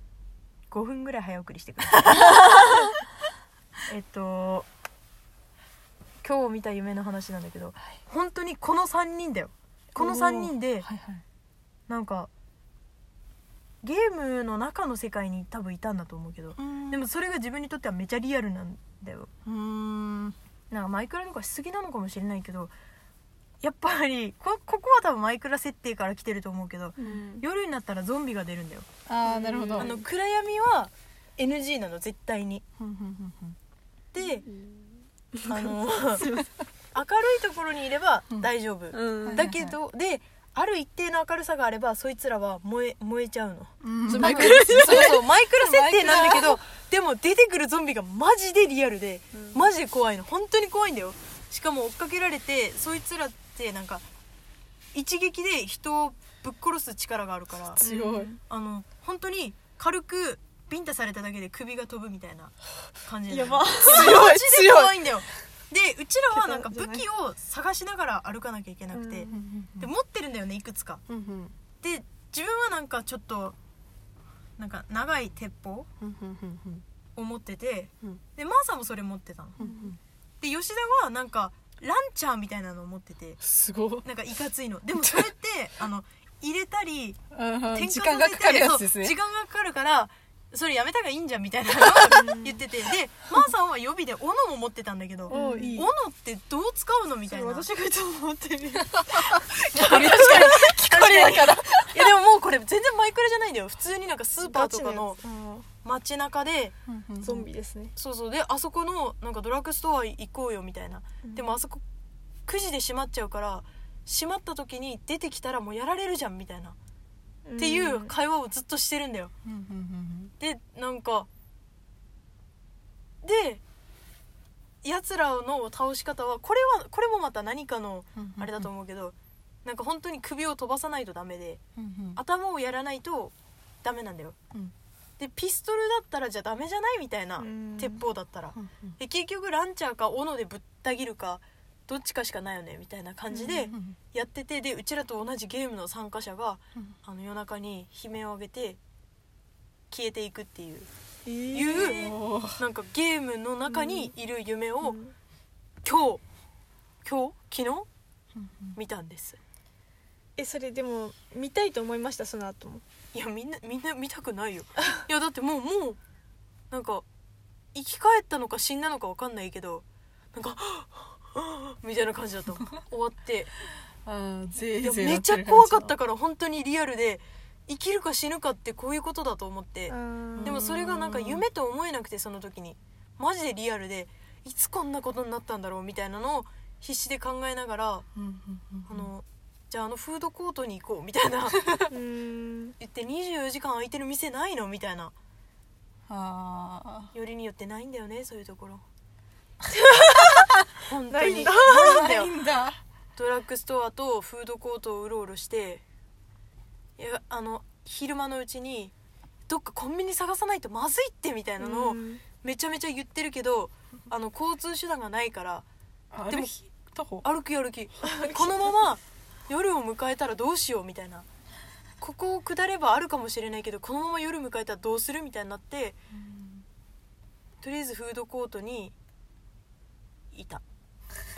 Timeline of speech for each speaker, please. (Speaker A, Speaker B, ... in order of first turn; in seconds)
Speaker A: 0.7-2.6, 3.9-4.7, 6.2-10.9, 11.9-12.3, 13.8-19.3, 20.7-22.7, 23.6-28.9, 29.8-32.6, 34.1-34.5, 35.5-36.4, 36.9-54.0, 54.9-57.8, 58.5-71.0, 71.8-73.5, 74.6-75.9, 77.2-79.6, 80.4-83.4, 84.0-97.7, 99.7-105.2, 105.8-106.7, 108.0-111.8, 112.5-116.8, 117.6-119.3, 120.4-121.3, 123.2-123.6, 124.8-129.1, 129.6-131.6, 132.2-134.4, 135.2-148.8, 149.9-150.9, 151.5-155.0, 155.8-156.2, 157.0-157.9, 158.8-159.4, 163.1-166.0, 166.7-167.0, 167.7-173.5, 174.8-188.1, 188.9-191.8, 192.8-195.1, 197.1-198.8, 200.8-202.3, 203.2-205.8, 207.0-208.9, 209.5-215.7, 216.3-216.6, 217.2-221.2, 222.0-226.0, 227.6-228.9, 230.3-230.6
Speaker B: 10.0-11.2, 16.6-17.0, 19.4-20.4, 29.1-30.0, 32.8-33.6, 39.2-39.8, 43.8-46.6, 57.8-58.3, 63.8-65.0, 69.3-69.9, 71.1-71.5, 76.0-76.8, 79.6-80.0, 83.4-84.0, 85.0-85.3, 87.3-89.2, 95.3-95.8, 99.1-102.1, 106.9-107.5, 119.4-120.3, 128.2-128.7, 131.8-132.2, 138.5-138.9, 143.7-144.0, 151.7-152.6, 158.3-158.8, 174.0-175.9, 180.3-181.4, 188.2-189.1, 196.1-197.1, 201.2-202.8, 216.1-217.2, 226.1-226.6
Speaker C: 27.0-27.4, 29.2-30.0, 35.3-36.5, 38.9-39.4, 44.1-45.2, 46.1-46.4, 57.8-58.4, 63.3-64.2, 66.3-67.0, 68.9-69.3, 92.2-92.6, 95.3-95.9, 97.2-99.4, 100.1-100.4, 104.4-105.7, 107.2-107.9, 117.4-118.1, 137.4-138.0, 143.3-143.7, 151.2-152.1, 153.7-154.1, 154.8-155.1, 160.4-162.8, 179.9-180.6, 191.9-192.7, 201.1-202.0, 211.6-212.2